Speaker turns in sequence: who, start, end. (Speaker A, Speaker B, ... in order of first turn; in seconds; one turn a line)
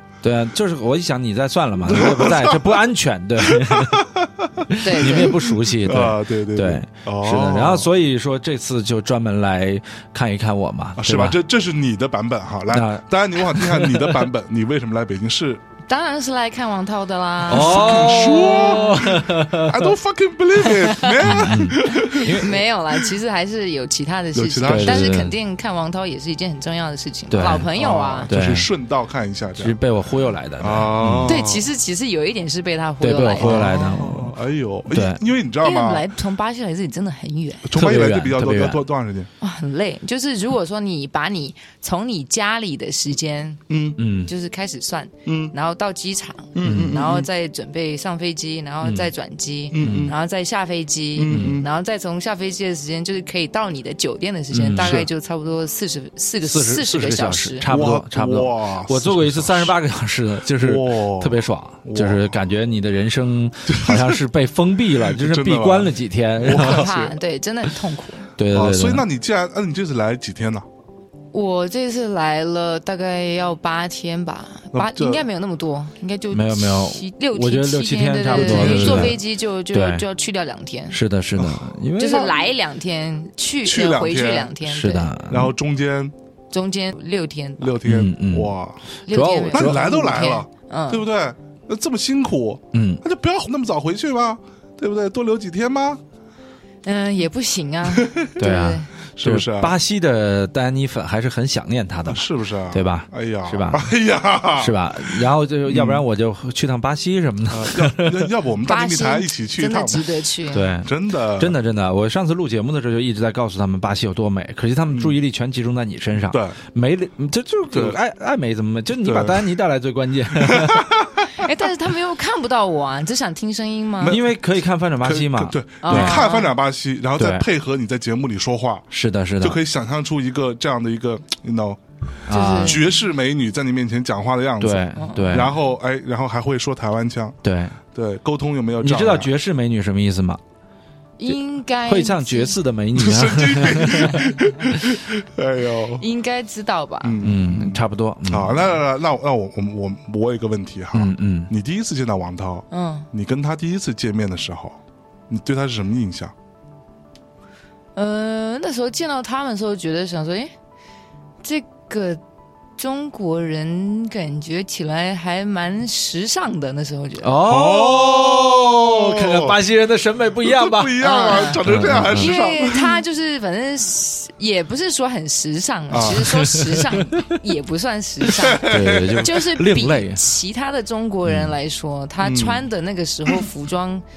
Speaker A: 0.2-4.1
Speaker B: 1.9-2.6
Speaker B: 3.4-7.9
Speaker A: 4.7-11.4
Speaker C: 4.8-5.4
Speaker B: 11.0-15.6
Speaker A: 12.7-14.3
Speaker C: 15.9-19.0
Speaker A: 17.5-19.9
Speaker B: 17.5-22.6
Speaker C: 21.0-28.3
Speaker A: 21.2-22.6
Speaker B: 24.3-25.2
Speaker A: 24.6-25.4
Speaker A: 27.3-27.7
Speaker B: 27.8-29.8
Speaker A: 28.3-28.7
Speaker A: 29.6-31.4
Speaker B: 30.6-31.7
Speaker C: 31.3-34.0
Speaker A: 33.0-34.3
Speaker B: 33.4-36.1
Speaker A: 34.9-35.2
Speaker C: 35.6-37.7
Speaker B: 37.6-39.3
Speaker A: 37.8-38.8
Speaker C: 39.4-43.6
Speaker B: 43.7-44.0
Speaker A: 44.0-44.3
Speaker C: 44.3-57.7
Speaker B: 45.3-45.5
Speaker B: 46.5-47.3
Speaker A: 46.6-46.9
Speaker A: 48.8-49.1
Speaker B: 49.7-50.1
Speaker A: 49.8-50.1
Speaker B: 51.2-51.7
Speaker A: 51.3-51.6
Speaker A: 54.5-55.1
Speaker B: 54.8-55.1
Speaker A: 56.4-66.9
Speaker B: 57.7-59.8
Speaker B: 60.5-62.3
Speaker B: 63.7-64.2
Speaker B: 65.1-67.2
Speaker C: 66.5-68.3
Speaker A: 68.4-69.0
Speaker B: 68.5-70.7
Speaker C: 71.3-81.0
Speaker B: 74.7-75.2
Speaker A: 76.3-79.2
Speaker B: 78.3-79.2
Speaker A: 79.7-80.0
Speaker A: 80.9-82.4
Speaker B: 81.4-81.8
Speaker C: 82.0-85.1
Speaker B: 83.6-84.5
Speaker A: 84.7-85.5
Speaker B: 85.3-86.1
Speaker C: 86.5-87.8
Speaker B: 87.6-88.8
Speaker A: 87.8-88.5
Speaker C: 89.1-91.0
Speaker A: 89.1-89.8
Speaker B: 89.5-96.0
Speaker A: 92.7-93.0
Speaker C: 96.8-98.9
Speaker B: 97.9-98.5
Speaker A: 98.4-103.8
Speaker B: 99.2-99.8
Speaker B: 102.1-106.0
Speaker A: 104.6-108.3
Speaker B: 107.5-110.1
Speaker C: 108.7-110.7
Speaker A: 110.5-120.8
Speaker B: 110.8-111.6
Speaker B: 114.9-115.2
Speaker B: 116.3-116.6
Speaker B: 117.7-118.0
Speaker B: 119.0-119.4
Speaker B: 120.3-121.3
Speaker C: 121.4-124.2
Speaker B: 124.0-124.4
Speaker A: 124.0-126.3
Speaker B: 125.0-128.9
Speaker C: 125.8-126.5
Speaker A: 127.2-127.5
Speaker A: 128.9-129.6
Speaker B: 129.4-131.8
Speaker A: 132.3-132.8
Speaker C: 132.3-132.8
Speaker B: 132.6-137.4
Speaker A: 134.6-135.5
Speaker C: 135.0-135.4
Speaker A: 137.4-137.8
Speaker B: 137.9-139.3
Speaker A: 138.8-140.4
Speaker C: 141.2-142.6
Speaker A: 141.3-144.3
Speaker B: 142.9-146.0
Speaker C: 146.0-147.2
Speaker B: 147.0-154.8
Speaker A: 147.2-148.7
Speaker A: 150.9-151.5
Speaker C: 152.7-153.1
Speaker B: 155.3-156.3
Speaker C: 158.0-160.5
Speaker C: 161.4-162.2
Speaker C: 162.8-167.3
Speaker A: 167.2-172.3
Speaker B: 167.4-169.6
Speaker B: 170.4-173.0
Speaker C: 171.0-184.0
Speaker B: 175.9-176.3
Speaker A: 176.0-177.2
Speaker B: 178.3-179.2
Speaker A: 178.7-180.2
Speaker A: 181.3-181.5
Speaker B: 182.2-182.6